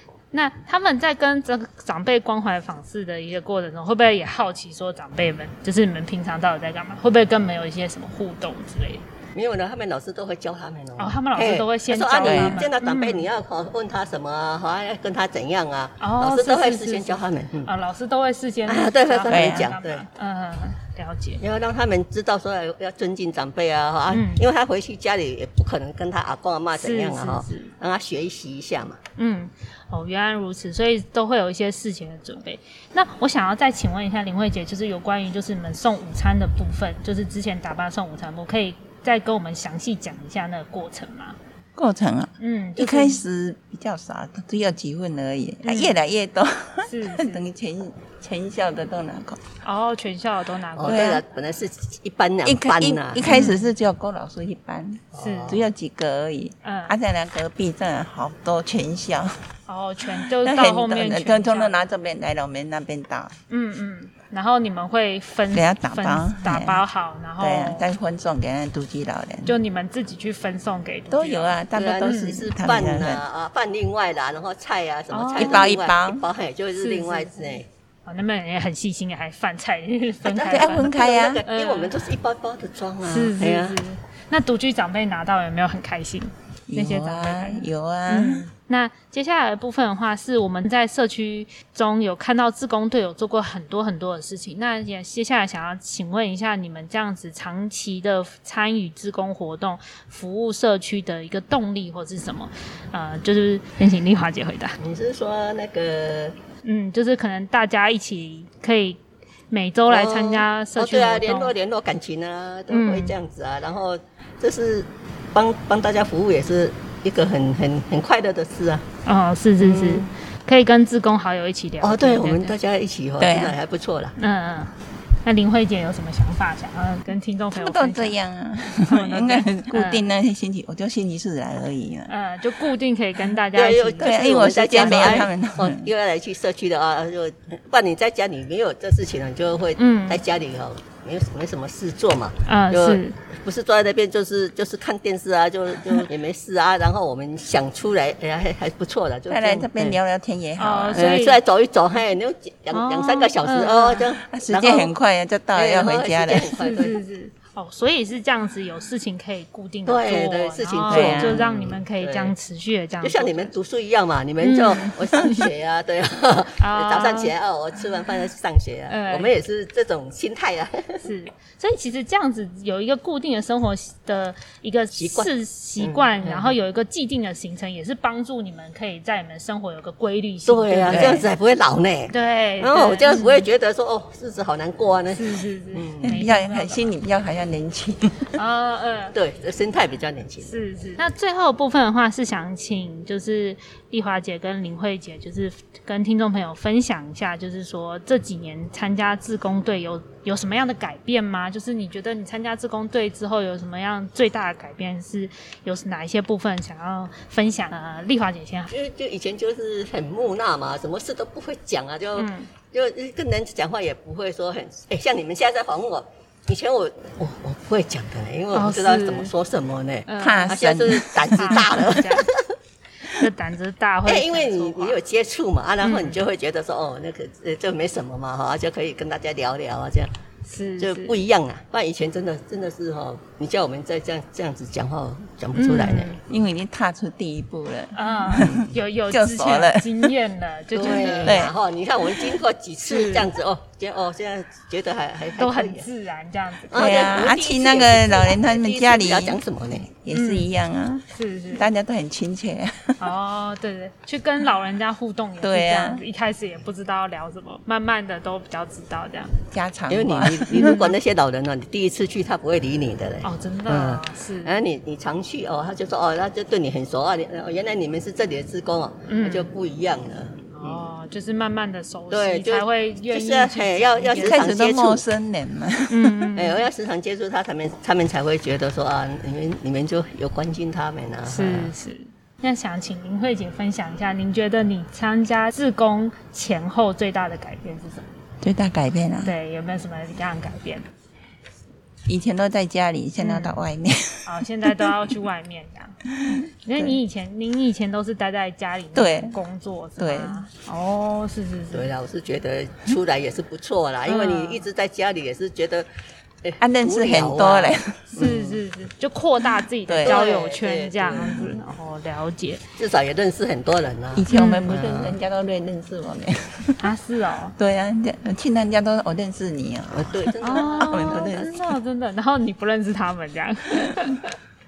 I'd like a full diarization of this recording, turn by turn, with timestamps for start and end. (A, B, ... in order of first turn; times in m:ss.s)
0:00.3-0:09.0 A
0:09.3-0:17.7 B
0:11.0-0:13.3 A
0:12.2-0:12.6 C
0:16.0-0:21.4 A
0:18.7-0:20.0 B
0:19.3-0:19.7 C
0:21.4-0:29.0 B
0:24.1-0:24.4 A
0:26.8-0:27.7 A
0:29.2-0:41.4 A
0:41.8-0:49.4 C
0:42.4-0:43.2 A
0:45.6-0:46.0 A
0:46.9-0:47.4 A
0:49.6-0:51.2 A
0:50.8-0:53.3 B
0:50.9-0:51.2 C
0:52.4-0:59.4 C
0:53.2-0:53.7 A
0:55.1-0:55.7 B
0:55.2-0:55.6 A
0:56.6-0:56.9 A
0:59.7-1:01.8 A
1:00.4-1:03.3 C
1:03.5-1:07.9 A
1:05.5-1:06.8 C
1:07.4-1:09.6 C
1:09.5-1:12.5 A
1:11.1-1:13.2 C
1:11.7-1:17.7 B
1:15.1-1:15.8 A
1:15.3-1:16.2 C
1:16.8-1:20.9 A
1:20.2-1:23.8 B
1:20.5-1:21.4 C
1:21.5-1:22.0 A
1:23.1-1:44.8 A
1:26.7-1:28.5 C
1:44.8-1:46.4 B
1:46.6-1:51.6 A
1:49.9-1:58.9 B
1:52.7-1:53.2 A
1:59.0-2:02.6 A
1:59.6-2:00.1 B
2:01.8-2:04.2 B
2:03.2-2:03.6 C
2:04.2-2:08.2 A
2:07.5-2:12.1 C
2:08.8-2:10.1 A
2:12.1-2:15.3 A
2:13.6-2:30.0 B
2:14.0-2:15.9 C
2:19.8-2:20.2 A
2:22.4-2:23.2 A
2:29.3-2:31.1 C
2:30.6-2:31.4 A
2:30.9-2:35.0 B
2:32.7-2:34.0 A
2:34.3-2:36.5 C
2:35.5-2:37.0 B
2:36.6-2:43.5 A
2:39.9-2:42.4 B
2:40.9-2:41.4 C
2:43.0-2:51.0 B
2:44.4-2:45.5 A
2:46.6-2:47.3 A
2:48.9-2:49.3 A
2:51.0-3:01.3 A
2:54.9-2:56.6 B
3:00.5-3:06.2 B
3:00.9-3:01.3 C
3:02.1-3:03.5 A
3:05.1-3:06.9 A
3:06.0-3:08.3 C
3:08.3-3:09.2 A
3:09.1-3:10.5 B
3:10.4-3:28.7 A
3:28.7-3:42.5 B
3:32.2-3:32.5 A
3:38.5-3:39.3 A
3:40.1-3:40.5 A
3:40.2-3:41.9 C
3:41.3-3:42.2 A
3:43.0-3:45.0 A
3:44.1-3:50.1 B
3:45.8-3:46.2 A
3:50.4-3:51.2 A
3:50.8-3:56.2 B
3:55.5-3:56.2 A
3:56.3-4:00.1 C
3:57.9-4:01.5 A
4:00.7-4:05.9 B
4:00.8-4:01.5 C
4:02.9-4:03.3 A
4:05.4-4:07.0 A
4:06.7-4:09.9 B
4:06.7-4:13.0 C
4:10.1-4:10.5 A
4:11.1-4:11.7 A
4:13.0-4:19.4 A
4:15.4-4:16.0 C
4:19.5-4:20.7 C
4:19.9-4:30.9 B
4:20.6-4:20.9 A
4:23.2-4:24.6 A
4:29.1-4:29.5 A
4:30.5-4:34.5 A
4:32.1-4:35.0 B
4:34.2-4:36.3 C
4:35.9-4:36.7 A
4:36.4-4:41.7 B
4:41.3-4:48.1 A
4:48.4-4:49.3 C
4:49.2-4:50.9 A
4:52.1-4:55.0 C
4:53.2-4:53.6 A
4:54.2-4:56.0 A
4:56.2-4:57.0 C
4:56.6-5:01.9 A
4:58.9-4:59.4 C
5:00.0-5:00.4 C
5:01.7-5:05.9 B
5:04.1-5:04.7 A
5:06.4-5:08.6 B
5:06.6-5:08.0 C
5:08.1-5:12.6 A
5:09.9-5:10.2 C
5:10.0-5:11.6 B
5:12.8-5:15.2 B
5:14.1-5:16.8 C
5:14.3-5:14.8 A
5:16.8-5:17.6 A
5:17.6-5:21.5 C
5:19.9-5:21.6 B
5:20.4-5:24.4 A